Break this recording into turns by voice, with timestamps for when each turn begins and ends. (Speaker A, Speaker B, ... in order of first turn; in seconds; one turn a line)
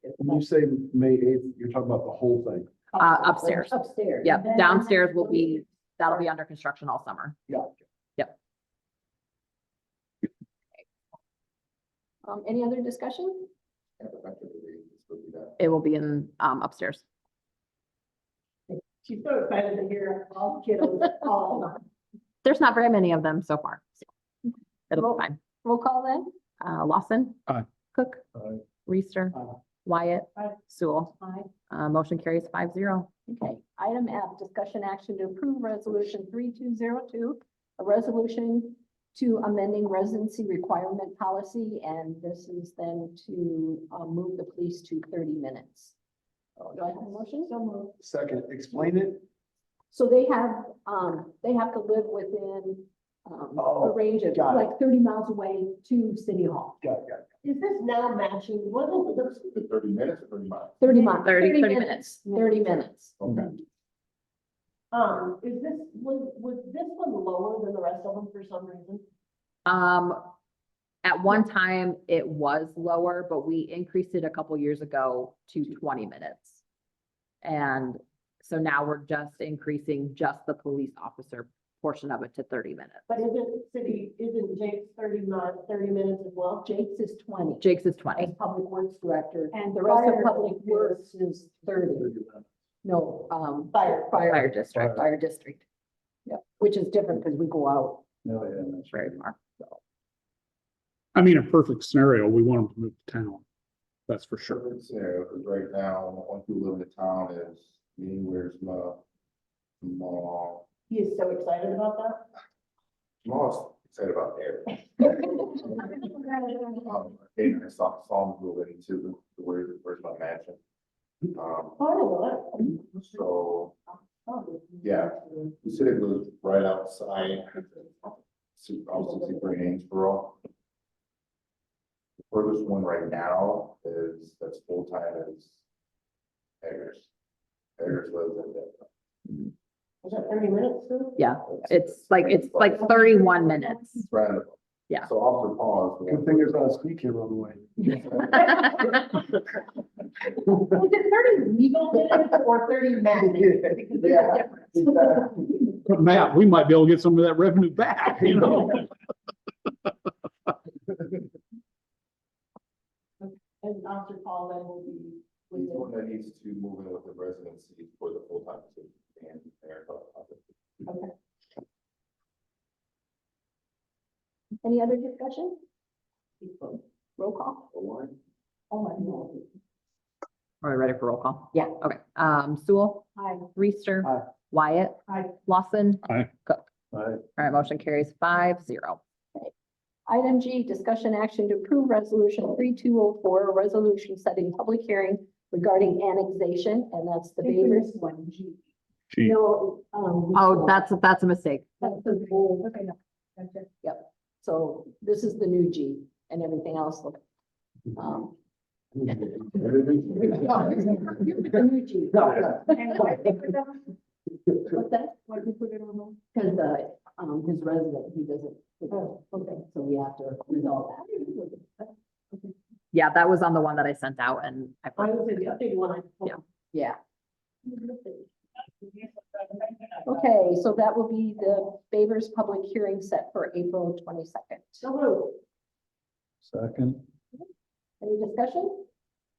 Speaker A: 0.2-2.7
Speaker B: 3.0-4.7
Speaker C: 3.0-7.4
Speaker B: 12.2-13.5
Speaker D: 14.0-15.6
Speaker C: 15.6-17.0
Speaker E: 18.8-21.8
Speaker C: 22.4-24.1
Speaker C: 24.9-25.4
Speaker B: 24.9-26.3
Speaker C: 26.6-27.4
Speaker C: 27.9-28.2
Speaker C: 28.9-33.1
Speaker B: 33.3-45.9
Speaker B: 46.7-47.5
Speaker E: 47.4-47.9
Speaker A: 48.0-49.2
Speaker B: 49.9-56.8
Speaker A: 53.6-54.7
Speaker A: 56.8-57.2
Speaker E: 57.4-59.3
Speaker D: 58.9-60.8
Speaker B: 60.8-63.1
Speaker C: 61.1-62.2
Speaker D: 63.2-63.5
Speaker E: 64.9-69.0
Speaker C: 69.7-70.2
Speaker C: 71.0-76.6
Speaker C: 77.4-83.2
Speaker E: 83.1-86.7
Speaker B: 86.6-92.3
Speaker C: 87.6-88.3
Speaker E: 89.5-91.3
Speaker B: 92.8-95.6
Speaker E: 93.7-94.1
Speaker C: 94.2-95.1
Speaker B: 96.2-98.0
Speaker A: 98.2-98.7
Speaker C: 98.9-99.3
Speaker B: 99.3-99.6
Speaker F: 101.1-103.4
Speaker F: 104.1-104.6
Speaker D: 104.5-109.0
Speaker D: 109.8-110.7
Speaker E: 110.9-112.2
Speaker D: 113.2-115.8
Speaker D: 116.7-120.6
Speaker D: 121.3-121.8
Speaker E: 121.8-122.8
Speaker D: 123.0-123.8
Speaker E: 124.3-124.8
Speaker D: 124.8-127.8
Speaker D: 128.6-130.4
Speaker D: 132.3-135.6
Speaker D: 136.6-137.1
Speaker D: 137.8-138.8
Speaker E: 140.0-141.2
Speaker C: 141.2-144.1
Speaker D: 141.5-142.8
Speaker D: 144.1-146.7
Speaker A: 146.1-148.2
Speaker D: 147.9-148.3
Speaker E: 150.6-154.8
Speaker A: 153.3-155.5
Speaker F: 155.8-158.8
Speaker E: 163.2-165.8
Speaker D: 165.5-170.8
Speaker B: 174.6-175.6
Speaker B: 177.2-177.7
Speaker D: 177.8-178.1
Speaker C: 180.6-186.7
Speaker C: 187.3-189.0
Speaker B: 190.1-198.1
Speaker E: 197.4-198.0
Speaker F: 199.1-199.4
Speaker B: 199.2-200.7
Speaker C: 200.3-201.9
Speaker B: 201.8-202.7
Speaker B: 203.8-207.2
Speaker B: 207.9-208.3
Speaker B: 209.1-213.3
Speaker A: 209.2-210.0
Speaker B: 214.6-215.3
Speaker B: 216.3-221.9
Speaker C: 222.9-225.3
Speaker E: 225.0-226.3
Speaker B: 226.7-227.0
Speaker B: 230.0-234.9
Speaker E: 234.8-235.3
Speaker A: 236.5-237.0
Speaker B: 238.0-238.8